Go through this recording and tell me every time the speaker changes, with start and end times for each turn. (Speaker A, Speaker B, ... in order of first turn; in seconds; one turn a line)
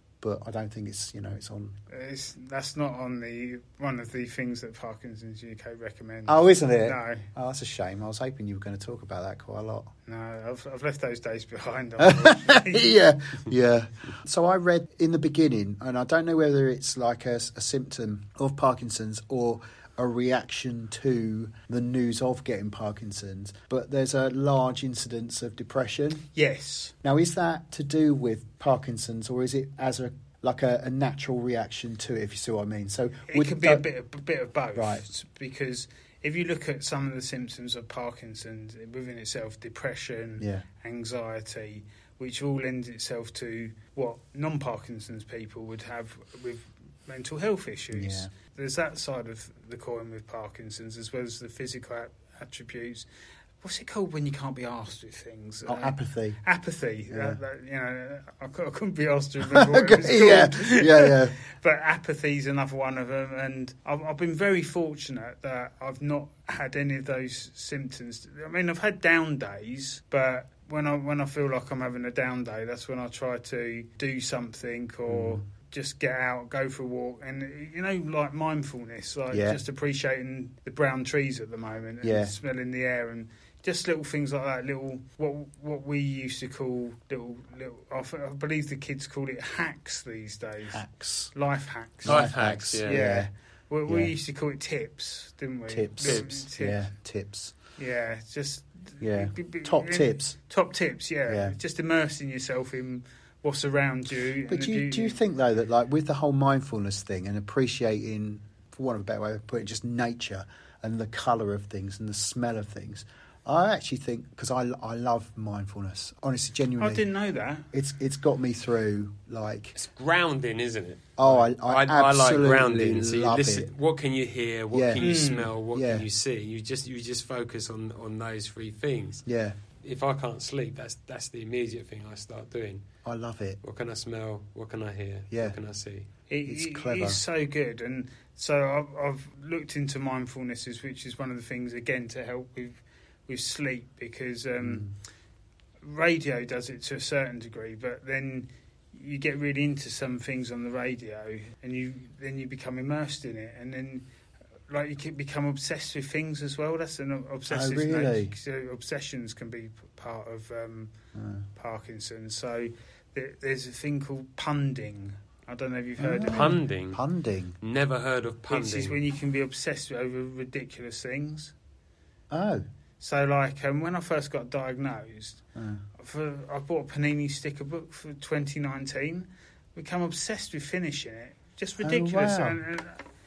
Speaker A: 0.2-1.8
Speaker B: 1.9-7.3
Speaker A: 6.3-9.9
Speaker B: 10.1-12.9
Speaker A: 12.0-26.2
Speaker B: 26.3-26.9
Speaker A: 27.0-33.8
Speaker B: 33.3-53.1
Speaker A: 34.7-35.0
Speaker A: 40.4-40.6
Speaker A: 47.9-48.3
Speaker B: 53.6-90.8
Speaker A: 55.7-56.4
Speaker A: 57.1-57.4
Speaker A: 59.4-61.4
Speaker A: 75.1-75.4
Speaker A: 79.3-79.6
Speaker A: 82.0-82.3
Speaker A: 90.7-91.3
Speaker B: 91.3-96.8
Speaker A: 92.0-93.3
Speaker C: 92.0-93.0
Speaker A: 93.9-94.1
Speaker A: 95.7-97.5
Speaker C: 96.0-96.3
Speaker B: 97.8-105.2
Speaker A: 99.0-100.3
Speaker A: 101.3-101.5
Speaker A: 104.5-117.0
Speaker B: 116.8-117.7
Speaker A: 117.7-119.7
Speaker C: 119.7-129.2
Speaker A: 121.2-123.7
Speaker A: 124.7-125.0
Speaker B: 125.0-125.5
Speaker A: 125.7-126.0
Speaker A: 129.2-129.6
Speaker C: 129.8-132.8
Speaker A: 133.0-133.6
Speaker C: 133.6-136.1
Speaker A: 135.3-135.6
Speaker B: 136.3-144.9
Speaker A: 136.4-137.2
Speaker A: 144.6-144.9
Speaker B: 145.8-154.1
Speaker B: 154.7-160.9
Speaker A: 157.5-158.3
Speaker A: 161.1-161.4
Speaker B: 161.6-166.6
Speaker A: 166.0-167.6
Speaker C: 166.3-167.0
Speaker C: 167.6-169.0
Speaker B: 168.5-171.5
Speaker A: 172.3-172.6
Speaker B: 173.0-175.4
Speaker A: 175.6-175.8
Speaker B: 176.0-183.0
Speaker A: 181.8-182.6